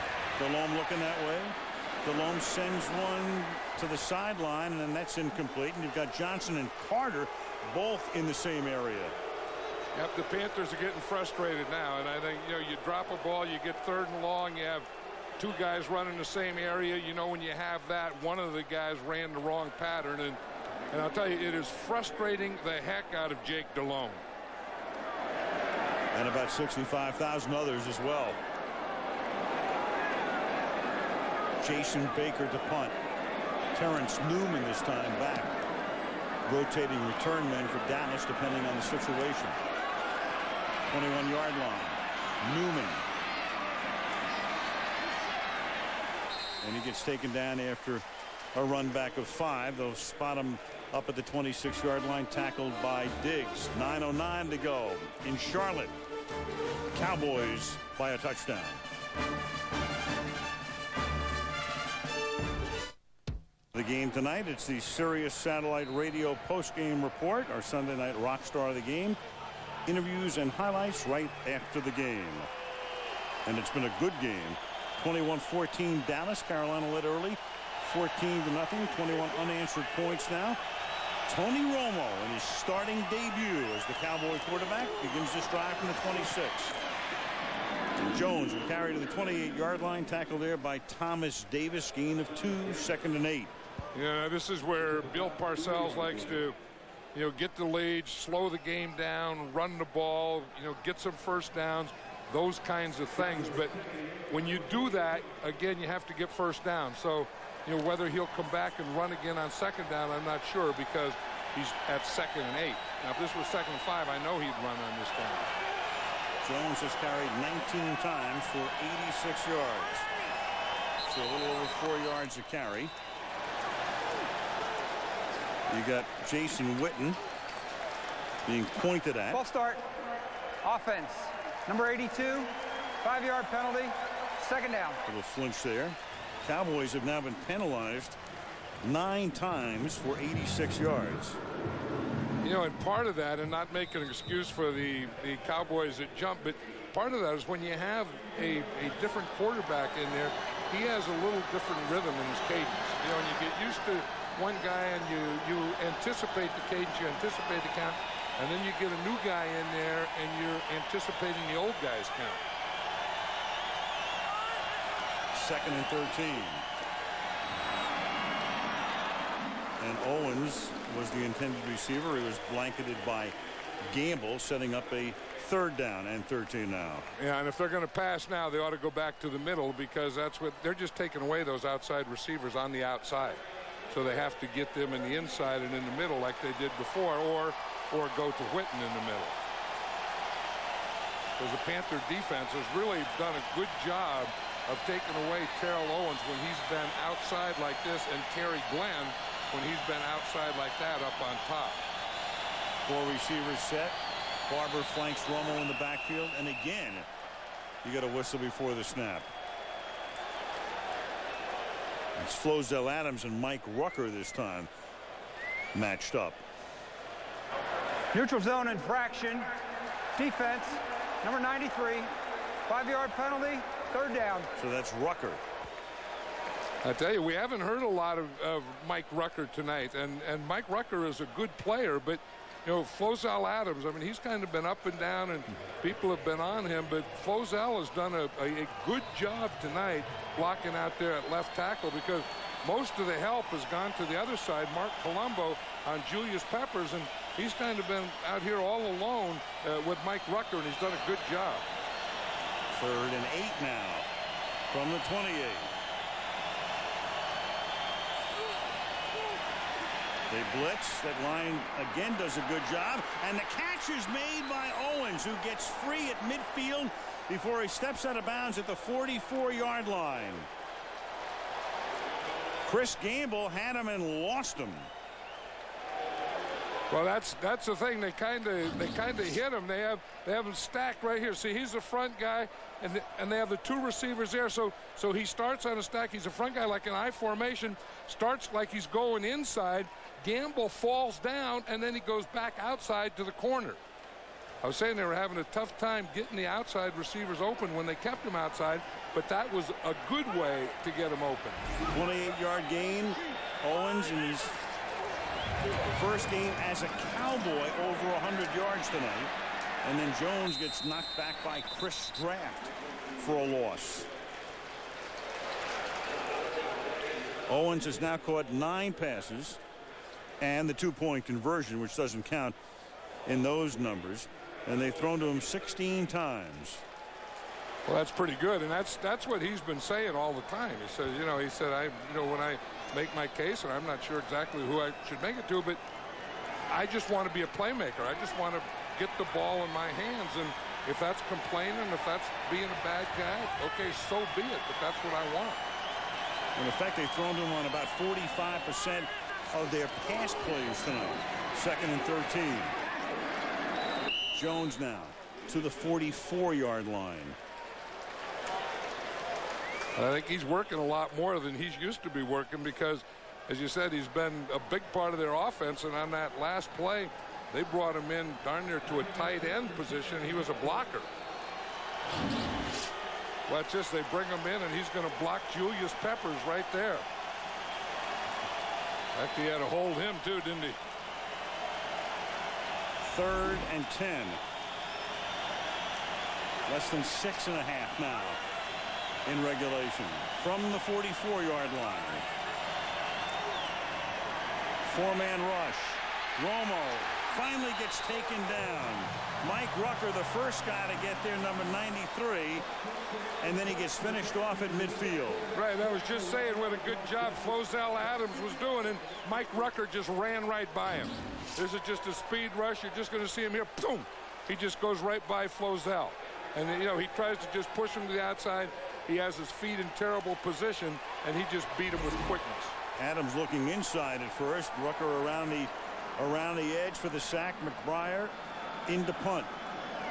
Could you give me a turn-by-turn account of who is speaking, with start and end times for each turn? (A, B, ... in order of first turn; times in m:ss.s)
0:00.4-0:09.2 A
0:09.9-0:14.9 B
0:15.4-0:20.4 B
0:20.9-0:24.2 B
0:26.1-0:28.4 A
0:31.6-0:33.0 A
0:33.7-0:35.6 A
0:36.4-0:39.6 A
0:40.9-0:43.0 A
0:46.6-0:48.0 A
0:48.5-0:56.0 A
0:56.9-0:58.8 A
1:03.7-1:09.2 A
1:09.8-1:12.5 A
1:13.4-1:20.6 A
1:21.3-1:26.8 A
1:28.0-1:33.5 A
1:33.9-1:36.6 B
1:37.1-1:43.7 B
1:44.3-1:55.5 B
1:56.4-2:00.1 A
2:01.0-2:02.9 A
2:05.7-2:07.2 A
2:08.4-2:09.4 A
2:09.3-2:09.9 C
2:10.6-2:15.0 C
2:15.0-2:18.2 A
2:18.8-2:21.4 A
2:22.4-2:42.4 B
2:45.3-2:46.6 A
2:49.8-2:57.0 A
2:57.2-3:09.3 B
3:11.4-3:21.8 B
3:22.8-3:27.1 A
3:27.8-3:29.3 A
3:32.2-3:34.7 A
3:35.7-3:36.4 A
3:38.1-3:39.5 C
3:40.2-3:42.1 C
3:42.7-3:44.5 C
3:44.6-3:45.4 A
3:46.8-4:11.6 B
4:12.7-4:14.1 A
4:14.7-4:15.7 A
4:20.3-4:30.5 A
4:32.6-4:34.9 A
4:36.9-4:53.8 B
4:54.6-5:01.6 B
5:01.9-5:04.5 A
5:05.9-5:14.1 A
5:17.5-5:19.6 A
5:20.4-5:22.6 A
5:23.2-5:26.8 A
5:27.9-5:35.8 B
5:36.7-5:45.6 B
5:46.6-5:52.7 A
5:54.3-5:57.4 A
6:00.0-6:11.1 B
6:13.5-6:17.0 B
6:19.1-6:20.8 B
6:23.0-6:24.4 A
6:26.7-6:28.4 A
6:29.2-6:32.3 A
6:34.8-6:42.6 A
6:43.4-6:45.5 A
6:45.5-7:02.7 B
7:03.0-7:08.3 A
7:08.9-7:09.5 A